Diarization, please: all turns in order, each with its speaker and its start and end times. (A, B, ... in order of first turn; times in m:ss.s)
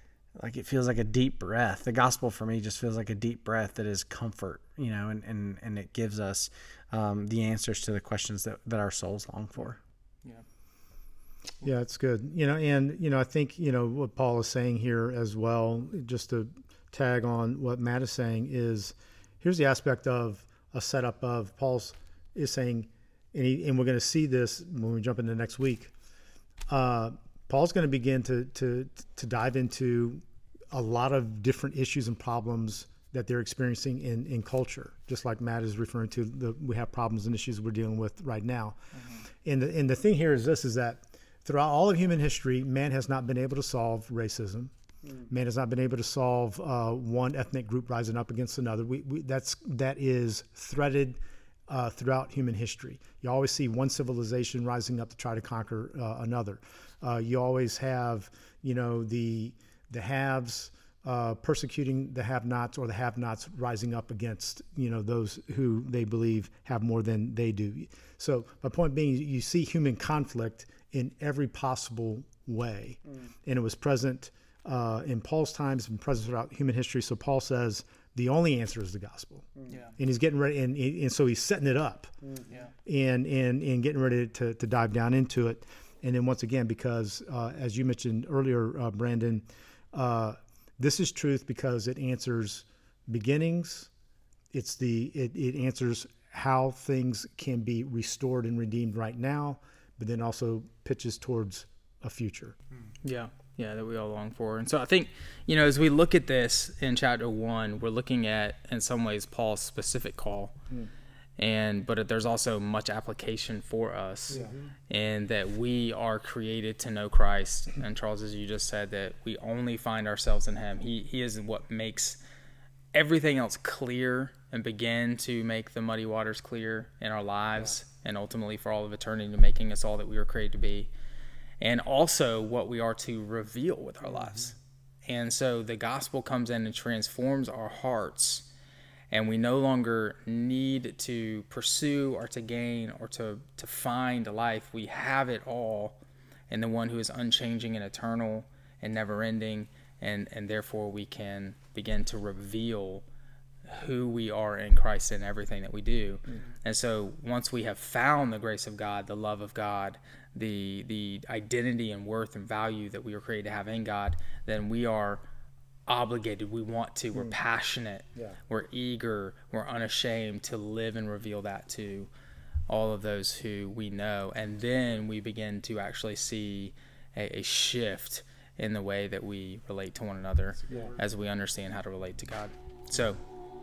0:00.4-0:09.8 A
0:11.6-0:25.9 B
0:26.7-0:38.8 B
0:38.9-0:39.2 C
0:39.4-0:44.7 B
0:45.3-1:22.1 B
1:19.7-1:19.9 C
1:22.8-1:33.9 B
1:34.5-1:42.6 B
1:43.0-1:50.6 C
1:51.4-2:02.2 C
1:54.3-1:54.7 A
2:02.9-2:10.9 C
2:11.6-2:14.5 C
2:15.0-2:18.5 C
2:19.1-2:26.0 C
2:26.5-2:33.0 C
2:33.7-2:45.2 C
2:45.9-2:52.1 C
2:52.7-3:03.2 C
3:00.6-3:01.0 A